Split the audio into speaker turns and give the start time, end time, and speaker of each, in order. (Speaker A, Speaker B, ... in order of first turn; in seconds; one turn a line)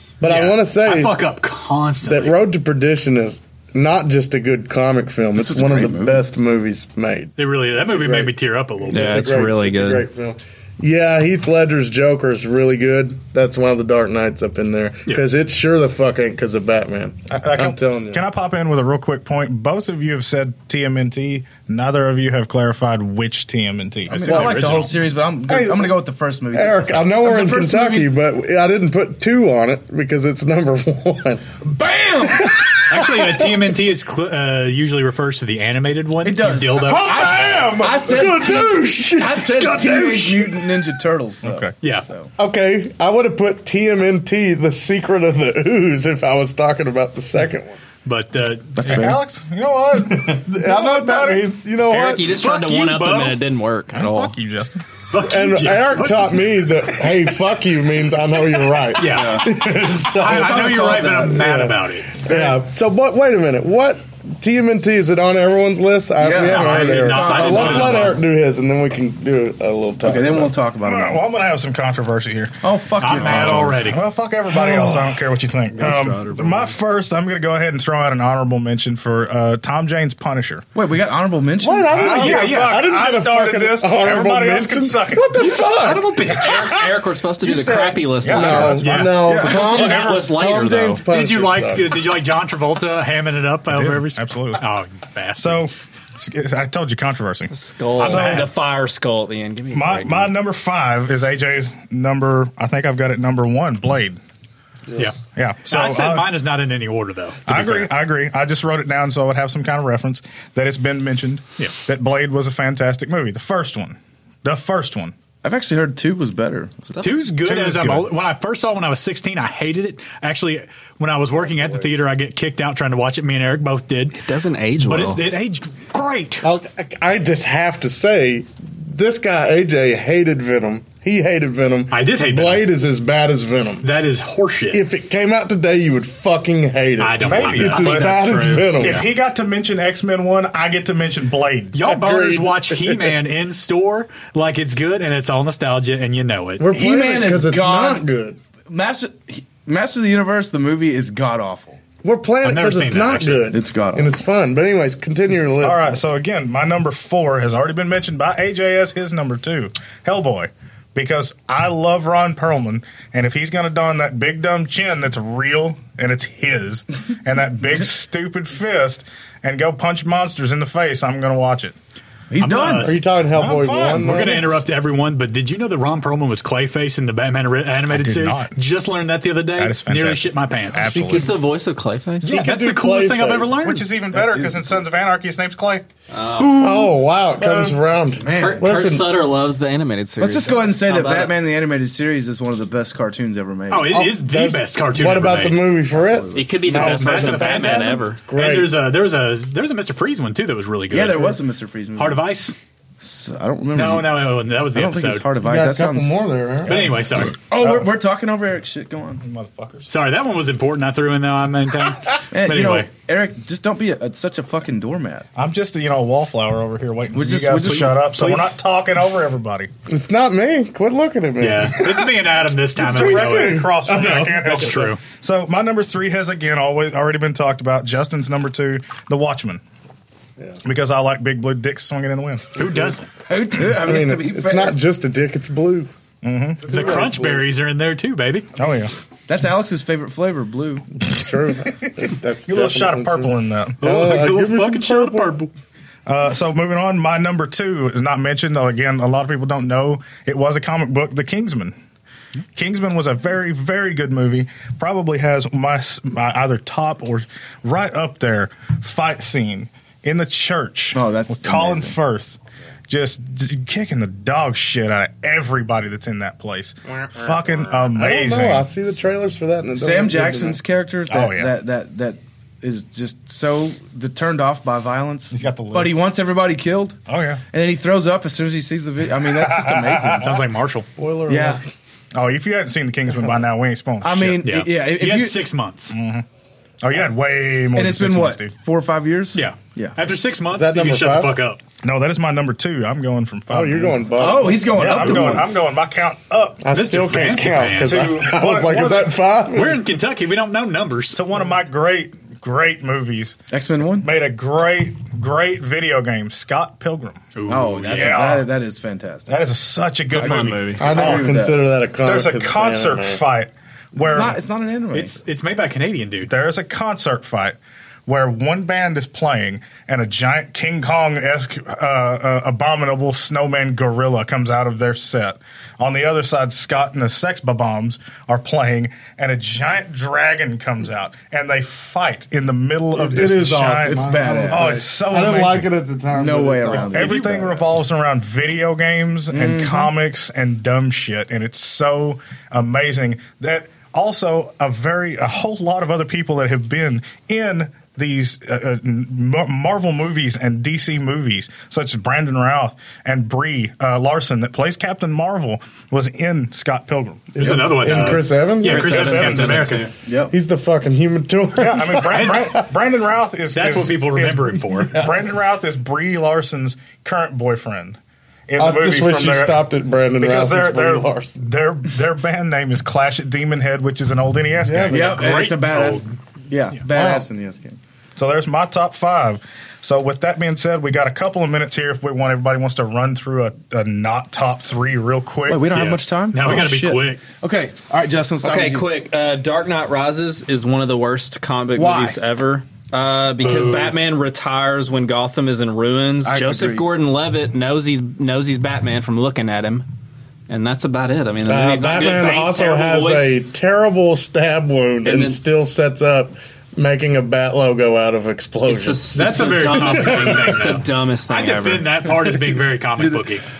Speaker A: 0.2-1.2
Speaker B: 0.2-2.4
Speaker A: 2.0-7.3
Speaker C: 5.3-6.2
Speaker B: 7.4-9.4
Speaker A: 7.8-8.3
Speaker A: 8.8-18.2
Speaker D: 8.9-10.1
Speaker E: 17.3-24.7
Speaker B: 24.1-25.0
Speaker C: 24.1-28.1
Speaker A: 25.5-25.9
Speaker A: 26.5-31.4
Speaker C: 31.6-32.6
Speaker A: 32.4-33.5
Speaker B: 32.9-37.2
Speaker C: 36.2-42.3
Speaker E: 36.8-38.3
Speaker A: 37.9-40.6
Speaker E: 41.4-41.8
Speaker A: 42.4-47.8
Speaker B: 48.0-49.1
Speaker C: 48.8-49.2
Speaker E: 48.8-51.5
Speaker A: 50.1-52.3
Speaker D: 51.9-54.3
Speaker B: 52.3-53.4
Speaker E: 53.9-54.8
Speaker B: 55.1-56.4
Speaker A: 55.2-70.5
Speaker B: 58.9-62.3
Speaker D: 59.0-59.4
Speaker C: 60.2-61.4
Speaker C: 66.2-68.1
Speaker B: 66.4-68.2
Speaker D: 67.1-68.2
Speaker C: 70.0-71.2
Speaker E: 70.8-80.7
Speaker C: 72.6-73.8
Speaker B: 73.0-74.0
Speaker A: 74.7-75.0
Speaker D: 75.8-76.7
Speaker C: 80.8-82.4
Speaker A: 81.6-86.2
Speaker E: 81.9-90.3
Speaker B: 82.0-82.8
Speaker B: 85.4-86.7
Speaker D: 86.2-91.0
Speaker A: 88.3-91.9
Speaker B: 88.8-89.5
Speaker C: 89.2-89.8
Speaker B: 91.1-95.7
Speaker E: 93.7-94.6
Speaker E: 95.4-98.5
Speaker D: 97.5-100.3
Speaker B: 98.0-98.5
Speaker E: 99.7-104.2
Speaker E: 105.3-106.3
Speaker B: 105.7-107.9
Speaker E: 107.5-115.1
Speaker C: 115.4-117.1
Speaker B: 117.0-124.2
Speaker E: 117.4-118.1
Speaker D: 124.2-125.2
Speaker B: 124.8-126.5
Speaker A: 126.4-133.9
Speaker B: 131.9-132.7
Speaker B: 133.8-134.8
Speaker A: 134.7-139.1
Speaker B: 137.0-139.0
Speaker E: 137.2-138.2
Speaker E: 138.8-141.8
Speaker B: 141.7-146.7
Speaker A: 141.9-143.1
Speaker A: 146.6-148.4
Speaker C: 146.7-148.0
Speaker C: 148.7-151.8
Speaker A: 152.0-156.0
Speaker B: 152.4-153.5
Speaker C: 153.5-154.1
Speaker E: 155.6-171.8
Speaker C: 172.3-173.0
Speaker B: 172.4-173.0
Speaker A: 172.8-174.6
Speaker E: 173.3-174.5
Speaker B: 174.0-181.1
Speaker E: 177.9-178.6
Speaker E: 179.6-181.4
Speaker D: 180.8-182.4
Speaker B: 182.2-183.9
Speaker A: 182.2-183.6
Speaker E: 183.6-185.9
Speaker C: 184.1-184.9
Speaker D: 186.1-186.9
Speaker C: 186.4-186.9
Speaker A: 186.6-189.1
Speaker E: 187.4-187.8
Speaker C: 188.2-188.6
Speaker D: 188.3-191.3
Speaker C: 190.2-194.0
Speaker B: 193.7-195.6
Speaker A: 193.9-198.8
Speaker D: 196.3-198.2
Speaker B: 196.7-201.4
Speaker C: 200.9-202.2
Speaker B: 201.9-202.6
Speaker C: 203.0-206.2
Speaker B: 203.7-205.3
Speaker A: 205.4-206.8
Speaker B: 206.7-207.4
Speaker C: 207.3-209.2
Speaker E: 207.6-207.9
Speaker E: 209.2-209.9
Speaker B: 209.9-212.9
Speaker C: 212.3-215.3
Speaker E: 215.3-219.7
Speaker C: 217.1-218.4
Speaker B: 217.6-218.5
Speaker A: 219.9-222.1
Speaker B: 221.4-225.0
Speaker A: 222.8-224.7
Speaker E: 222.8-229.6
Speaker E: 230.6-232.7
Speaker B: 232.6-233.1
Speaker C: 233.3-234.8
Speaker A: 233.7-235.9
Speaker E: 236.2-236.8
Speaker A: 236.6-237.5
Speaker B: 236.7-238.5
Speaker E: 238.6-238.9
Speaker C: 239.3-240.9
Speaker A: 241.0-245.3
Speaker E: 242.4-243.8
Speaker B: 243.8-245.5
Speaker E: 246.1-251.8
Speaker E: 252.6-268.7
Speaker C: 260.9-262.0
Speaker A: 267.8-270.6
Speaker C: 269.8-277.0
Speaker E: 271.1-271.5
Speaker E: 275.3-276.0
Speaker E: 277.1-277.4
Speaker C: 277.5-280.4
Speaker E: 279.2-280.4
Speaker B: 280.2-280.9
Speaker A: 281.0-281.6
Speaker C: 281.3-281.6
Speaker E: 282.1-284.4
Speaker C: 284.0-285.4
Speaker B: 284.4-285.9
Speaker E: 285.9-286.3
Speaker E: 286.8-288.6
Speaker C: 287.8-289.9
Speaker B: 289.4-291.6
Speaker A: 290.5-291.3
Speaker E: 291.8-296.7
Speaker A: 293.5-295.3
Speaker C: 294.2-295.5
Speaker A: 296.6-299.8
Speaker B: 296.7-298.2
Speaker E: 297.7-299.1
Speaker B: 299.5-301.2
Speaker E: 301.1-303.4
Speaker C: 303.5-304.1
Speaker E: 304.0-307.2
Speaker B: 307.4-308.2
Speaker C: 307.5-309.4
Speaker E: 307.9-308.5
Speaker E: 309.3-311.4
Speaker D: 310.1-310.8
Speaker C: 310.8-311.6
Speaker A: 310.8-313.2
Speaker E: 312.0-314.4
Speaker C: 313.9-315.2
Speaker B: 314.9-316.3
Speaker E: 316.3-335.7
Speaker A: 332.9-337.4
Speaker C: 333.7-334.8
Speaker C: 336.1-337.5
Speaker E: 336.9-358.1
Speaker C: 339.3-339.9
Speaker A: 357.4-359.5
Speaker B: 357.4-359.9
Speaker D: 358.7-359.9
Speaker E: 358.8-359.7
Speaker C: 359.1-360.3
Speaker A: 360.3-362.6
Speaker E: 361.6-369.7
Speaker B: 362.1-362.4
Speaker B: 363.5-365.1
Speaker A: 368.6-371.4
Speaker E: 370.2-375.3
Speaker A: 374.6-375.2
Speaker C: 374.9-377.8
Speaker B: 374.9-376.1
Speaker A: 376.9-377.3
Speaker E: 378.2-386.0
Speaker C: 385.5-388.9
Speaker B: 385.8-387.2
Speaker D: 388.4-399.9
Speaker C: 391.8-392.2
Speaker B: 393.4-393.9
Speaker C: 396.2-396.9
Speaker D: 400.5-403.4
Speaker A: 401.4-409.4
Speaker D: 405.1-405.4
Speaker D: 408.7-411.9
Speaker B: 409.1-413.4
Speaker A: 409.9-410.4